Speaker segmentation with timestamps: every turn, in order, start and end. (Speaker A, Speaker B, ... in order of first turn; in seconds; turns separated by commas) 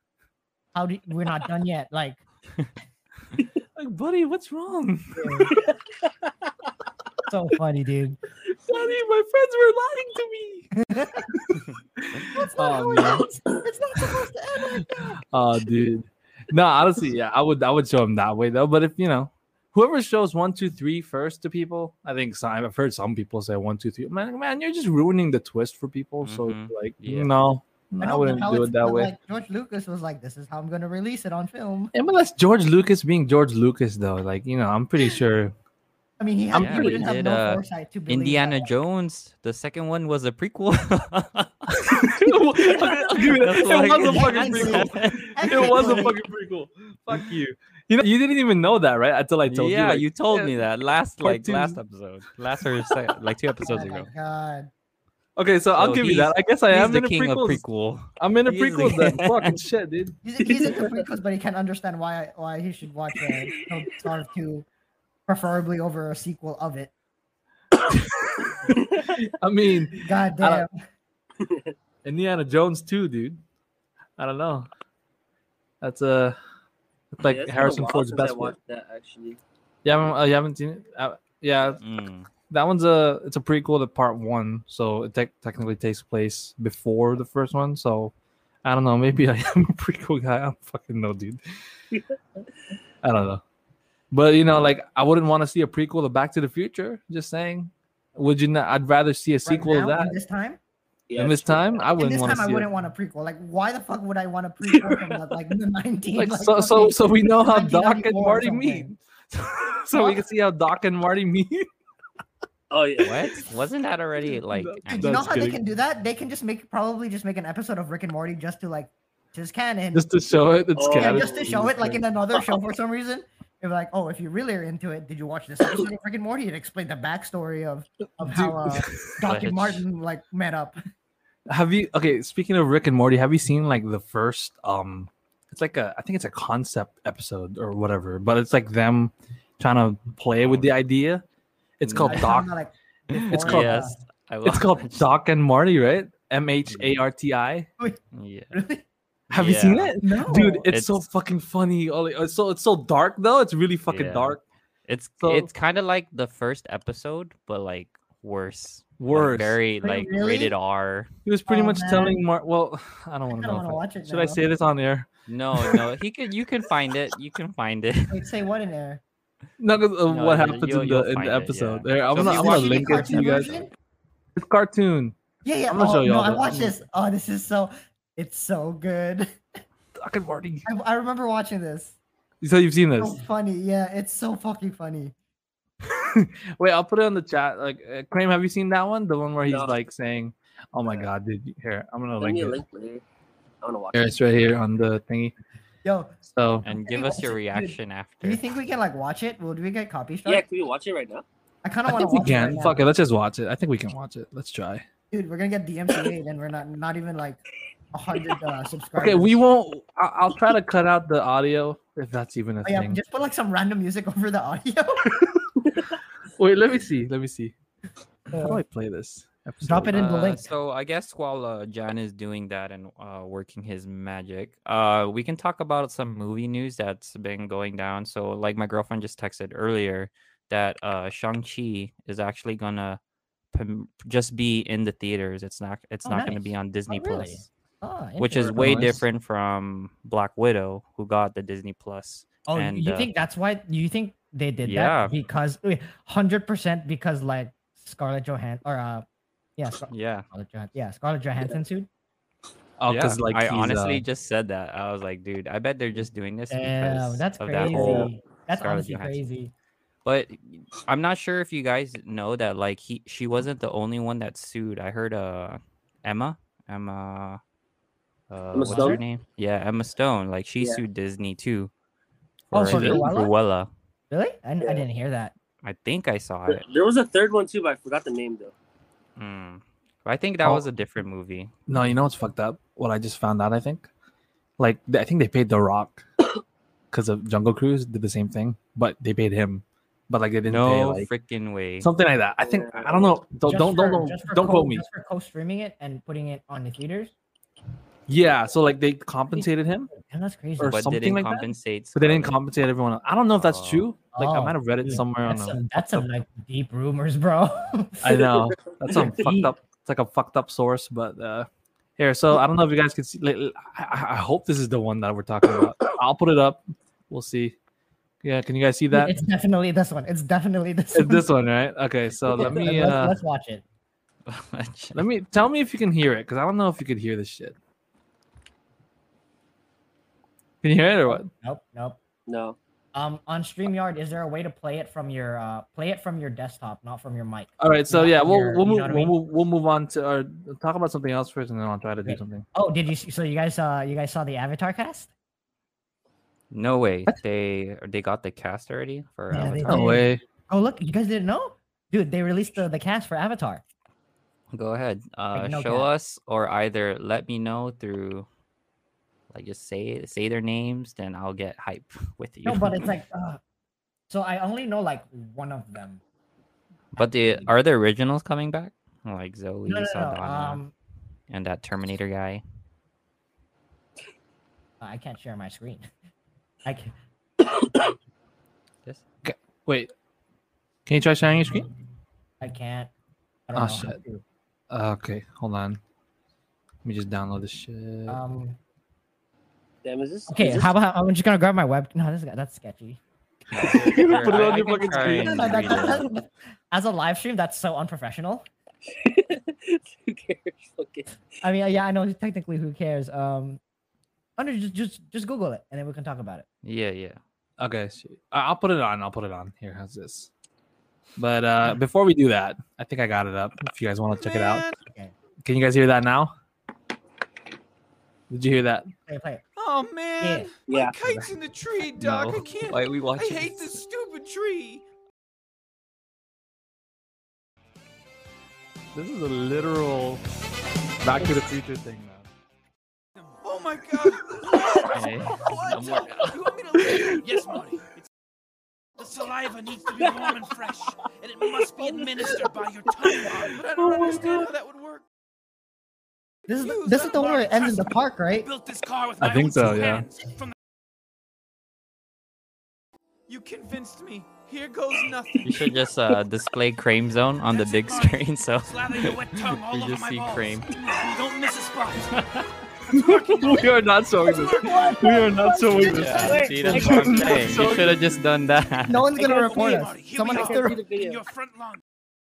Speaker A: 0.7-2.2, Speaker B: 3.8-5.5, Speaker A: 5.1-5.5, Speaker C: 5.5-6.5, Speaker A: 7.3-8.2, Speaker B: 8.6-10.7, Speaker A: 10.7-11.3, Speaker B: 11.3-13.2, Speaker A: 12.2-15.2, Speaker B: 15.3-29.1, Speaker D: 26.2-27.3, Speaker A: 28.0-31.9, Speaker B: 31.9-35.5, Speaker A: 36.2-38.7, Speaker D: 36.5-41.8, Speaker C: 36.6-37.0, Speaker B: 41.7-50.6, Speaker D: 43.2-46.0, Speaker A: 44.0-46.1, Speaker D: 49.5-54.1, Speaker B: 51.2-51.8, Speaker A: 53.6-54.7, Speaker B: 55.4-57.6, Speaker D: 55.8-59.5, Speaker B: 58.2-60.2, Speaker A: 60.2-64.7, Speaker C: 60.4-61.0, Speaker C: 63.2-63.8, Speaker A: 65.3-66.9, Speaker B: 68.2-70.6, Speaker A: 70.0-70.7, Speaker C: 71.4-71.7, Speaker B: 72.0-73.4, Speaker B: 74.2-74.7, Speaker B: 75.8-76.3, Speaker B: 77.1-78.5, Speaker C: 77.2-79.4, Speaker B: 79.8-81.8, Speaker D: 81.8-82.3, Speaker B: 82.5-88.1, Speaker B: 88.6-91.4, Speaker B: 93.0-93.4, Speaker B: 94.1-100.2, Speaker A: 99.5-100.6, Speaker C: 101.1-101.8, Speaker B: 101.2-102.7, Speaker A: 102.0-108.9, Speaker B: 104.7-105.1, Speaker B: 106.1-111.7, Speaker A: 109.9-110.2, Speaker C: 112.7-113.3, Speaker D: 113.0-115.3, Speaker B: 114.5-115.6, Speaker A: 114.9-120.1, Speaker B: 119.9-122.0, Speaker C: 120.8-121.4, Speaker A: 120.9-130.8, Speaker B: 128.2-129.1, Speaker D: 129.2-129.8, Speaker B: 131.5-141.2, Speaker D: 140.4-140.7, Speaker B: 141.8-142.5, Speaker D: 141.8-142.4, Speaker A: 142.0-144.0, Speaker D: 143.1-145.1, Speaker B: 143.1-143.9, Speaker B: 144.4-147.7, Speaker D: 148.1-148.5, Speaker A: 148.5-148.8, Speaker D: 149.3-151.0, Speaker B: 149.3-154.4, Speaker A: 150.1-150.7, Speaker D: 153.9-161.1, Speaker B: 155.2-155.5, Speaker B: 159.0-159.6, Speaker A: 159.8-160.5, Speaker B: 161.2-165.1, Speaker A: 161.5-162.2, Speaker A: 163.3-164.4, Speaker D: 165.3-168.2, Speaker A: 168.1-169.0, Speaker B: 169.6-173.5, Speaker D: 170.1-173.7, Speaker A: 172.2-173.7, Speaker B: 174.3-175.2, Speaker A: 175.4-179.3, Speaker B: 175.7-176.8, Speaker B: 180.0-180.6, Speaker A: 180.6-181.9, Speaker B: 182.4-183.2, Speaker A: 183.0-185.1, Speaker B: 185.8-192.6, Speaker C: 189.5-189.8, Speaker C: 192.2-193.0, Speaker C: 193.6-194.2, Speaker B: 193.9-195.3, Speaker A: 195.8-200.4, Speaker B: 196.2-196.6, Speaker D: 196.6-198.4, Speaker C: 200.2-201.2, Speaker A: 201.6-202.8, Speaker B: 201.9-204.8, Speaker A: 205.1-207.4, Speaker A: 207.9-209.4, Speaker B: 209.0-213.0, Speaker A: 212.6-215.2, Speaker C: 215.6-215.9, Speaker B: 216.4-217.5, Speaker A: 218.3-218.6, Speaker B: 218.3-220.1, Speaker A: 219.6-220.5, Speaker D: 219.9-233.0, Speaker D: 233.5-237.5, Speaker A: 236.0-238.7, Speaker D: 238.2-243.1, Speaker B: 238.4-239.0, Speaker A: 242.5-249.0, Speaker D: 244.6-245.1, Speaker A: 249.6-251.9, Speaker D: 249.9-250.3, Speaker B: 252.8-254.0, Speaker D: 252.9-259.2, Speaker A: 256.5-259.5, Speaker C: 257.6-258.1, Speaker D: 260.0-267.4, Speaker D: 268.3-271.7, Speaker C: 268.5-269.0, Speaker A: 268.6-269.0, Speaker D: 272.5-273.7, Speaker A: 272.5-273.3, Speaker B: 272.7-273.0, Speaker A: 274.1-275.3, Speaker D: 275.6-276.6, Speaker C: 276.5-278.5, Speaker D: 279.2-281.5, Speaker B: 281.7-283.9, Speaker B: 284.6-286.0, Speaker B: 286.9-291.1, Speaker D: 290.4-291.9, Speaker B: 291.8-294.8, Speaker C: 292.4-293.2, Speaker A: 293.4-297.1, Speaker B: 298.1-299.9, Speaker A: 299.4-300.8, Speaker B: 300.6-306.1, Speaker D: 300.6-302.4, Speaker D: 303.3-303.9, Speaker A: 304.1-308.3, Speaker B: 308.0-317.6, Speaker C: 308.7-309.1, Speaker A: 308.9-309.5, Speaker B: 318.2-319.1, Speaker A: 318.9-321.3, Speaker B: 320.9-323.2, Speaker C: 322.3-322.7, Speaker A: 322.3-323.6, Speaker D: 324.3-325.0, Speaker B: 324.9-327.5, Speaker B: 330.6-331.3, Speaker A: 331.1-332.0, Speaker C: 332.3-332.6, Speaker A: 332.9-339.1, Speaker B: 337.6-342.4, Speaker A: 342.0-345.1, Speaker D: 346.5-350.0, Speaker A: 349.3-353.6, Speaker B: 349.6-350.2, Speaker D: 354.5-358.3, Speaker A: 355.3-355.9, Speaker D: 359.3-362.9, Speaker A: 362.4-363.4, Speaker A: 364.1-366.0, Speaker D: 366.9-370.6, Speaker A: 367.0-367.5, Speaker A: 369.7-370.7, Speaker D: 371.3-372.4, Speaker A: 374.8-375.8, Speaker A: 376.6-376.9, Speaker B: 379.2-379.9, Speaker B: 380.9-381.6, Speaker A: 382.4-382.9, Speaker A: 383.5-384.2, Speaker B: 383.5-384.0, Speaker B: 384.7-385.8, Speaker B: 386.8-388.2, Speaker A: 388.1-388.6, Speaker C: 389.8-390.7, Speaker A: 390.3-393.0, Speaker D: 393.5-396.1, Speaker B: 393.5-396.0, Speaker A: 394.9-398.4, Speaker C: 398.9-401.1, Speaker A: 401.4-403.6, Speaker A: 404.4-406.4, Speaker D: 406.6-407.2, Speaker B: 407.6-410.3, Speaker B: 411.2-414.6, Speaker E: 414.1-414.8, Speaker A: 414.9-415.1, Speaker B: 415.4-416.3, Speaker B: 418.3-418.9, Speaker A: 419.1-419.4, Speaker E: 419.6-424.8, Speaker A: 420.2-420.5, Speaker C: 420.7-420.9, Speaker B: 421.0-421.3, Speaker D: 422.0-423.8, Speaker B: 428.9-430.2, Speaker B: 431.0-432.3, Speaker E: 433.2-438.0, Speaker D: 434.9-436.5, Speaker B: 436.8-437.2, Speaker E: 439.0-445.0, Speaker C: 440.0-440.3, Speaker C: 441.8-442.5, Speaker B: 443.8-444.5, Speaker A: 446.5-448.5, Speaker E: 446.5-450.5, Speaker B: 449.2-450.1, Speaker E: 453.3-455.7, Speaker D: 455.4-460.7, Speaker E: 457.5-462.2, Speaker D: 462.1-462.4, Speaker E: 462.9-465.3, Speaker B: 462.9-468.0, Speaker A: 464.6-466.5, Speaker D: 465.9-469.1, Speaker C: 466.0-467.7, Speaker A: 468.9-470.8, Speaker E: 469.2-471.8, Speaker C: 470.3-471.2